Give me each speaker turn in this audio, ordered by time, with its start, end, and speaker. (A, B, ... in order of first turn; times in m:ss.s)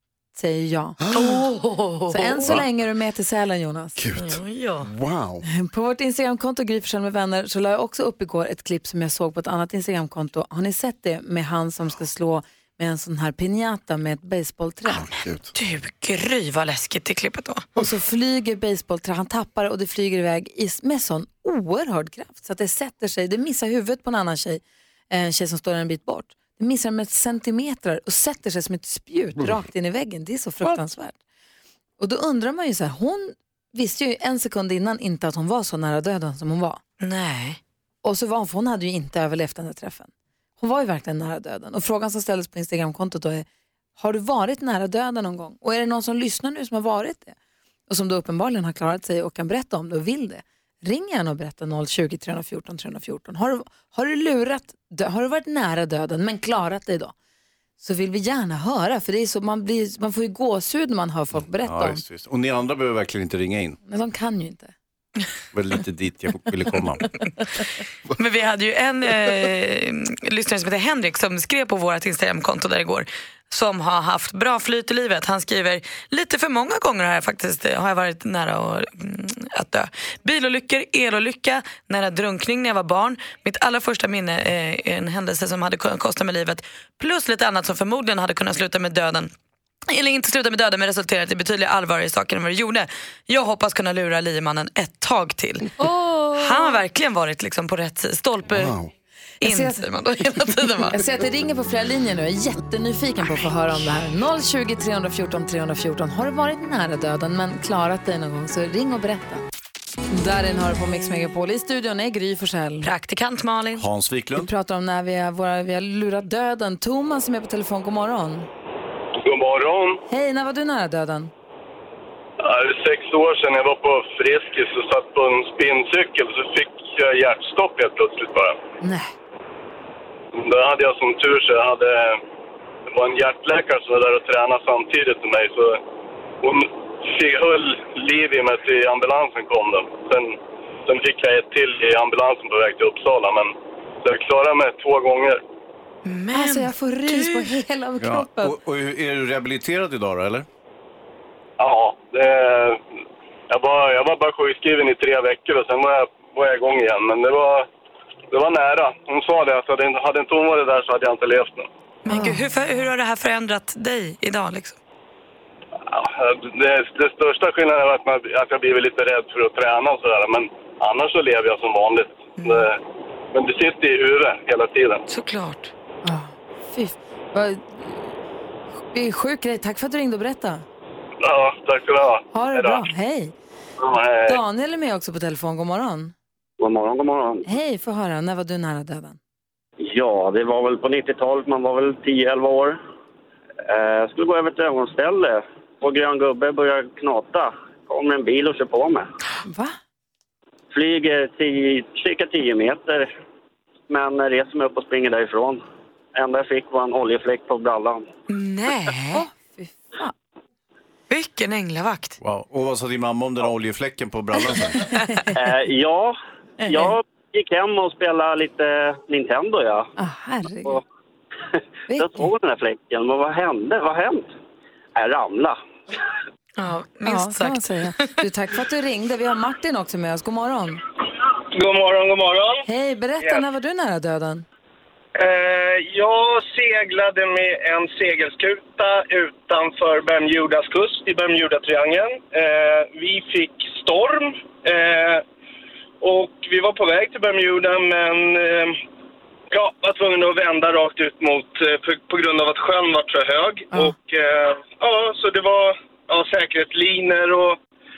0:00.4-0:01.3 A
0:01.0-0:01.3 B
0:01.1-0:02.6 C
0:02.1-0:04.0 A
0:04.0-0:05.4 B
0:04.1-0:04.9 C
0:05.4-0:15.0 A
0:14.9-0:15.5 B
0:15.5-0:17.6 C
0:17.8-0:31.2 A
0:32.0-0:36.8 A
0:37.0-0:37.6 C
0:38.0-0:43.4 A
0:44.0-0:47.3 A
0:47.9-0:57.1 A
0:57.8-1:02.0 A
1:01.6-1:03.8 D
1:03.8-1:04.7 A
1:05.5-1:07.0 D
1:08.2-1:29.3 C
1:29.9-1:35.7 C
1:35.8-1:36.8 A
1:36.3-1:38.7 C
1:38.5-1:38.9 B
1:39.4-1:39.8 A
1:39.4-1:41.0 C
1:40.9-1:49.4 A
1:50.1-1:52.9 A
1:52.8-1:53.8 C
1:53.7-1:54.5 D
1:54.3-1:58.5 A
1:59.2-2:00.0 E
2:00.1-2:01.3 A
2:02.4-2:08.6 E
2:08.8-2:09.1 A
2:10.3-2:12.2 E
2:12.9-2:15.8 E
2:16.4-2:25.4 E
2:26.0-2:27.6 C
2:26.3-2:28.6 A
2:28.0-2:30.5 D
2:31.6-2:32.8 E
2:33.5-2:37.7 E
2:38.3-2:41.7 E
2:42.0-2:44.8 C
2:42.1-2:42.8 A
2:45.8-2:52.8 E
2:52.4-2:52.7 C
2:53.3-2:55.0 E
2:55.1-2:55.7 C
2:56.0-2:58.2 A
2:58.9-3:00.6 A
3:01.2-3:02.8 E
3:02.3-3:03.3 A
3:03.8-3:04.4 E
3:04.2-3:06.1 A
3:06.6-3:07.4 F
3:07.4-3:09.2 A
3:09.8-3:12.8 F
3:13.7-3:19.1 F
3:19.4-3:19.8 A
3:20.7-3:23.1 F
3:23.9-3:25.6 F
3:26.1-3:28.1 F
3:28.3-3:29.3 C
3:29.1-3:30.1 A
3:31.1-3:32.2 C
3:32.2-3:34.8 D
3:35.4-3:39.9 F
3:40.0-3:40.8 A
3:41.9-3:42.3 A
3:42.0-3:44.3 F
3:45.0-3:45.6 F
3:46.6-3:47.7 C
3:47.0-3:50.8 A
3:51.5-3:52.6 G
3:52.6-3:54.4 A
3:55.2-4:05.2 G
4:06.0-4:08.8 G
4:09.5-4:17.6 G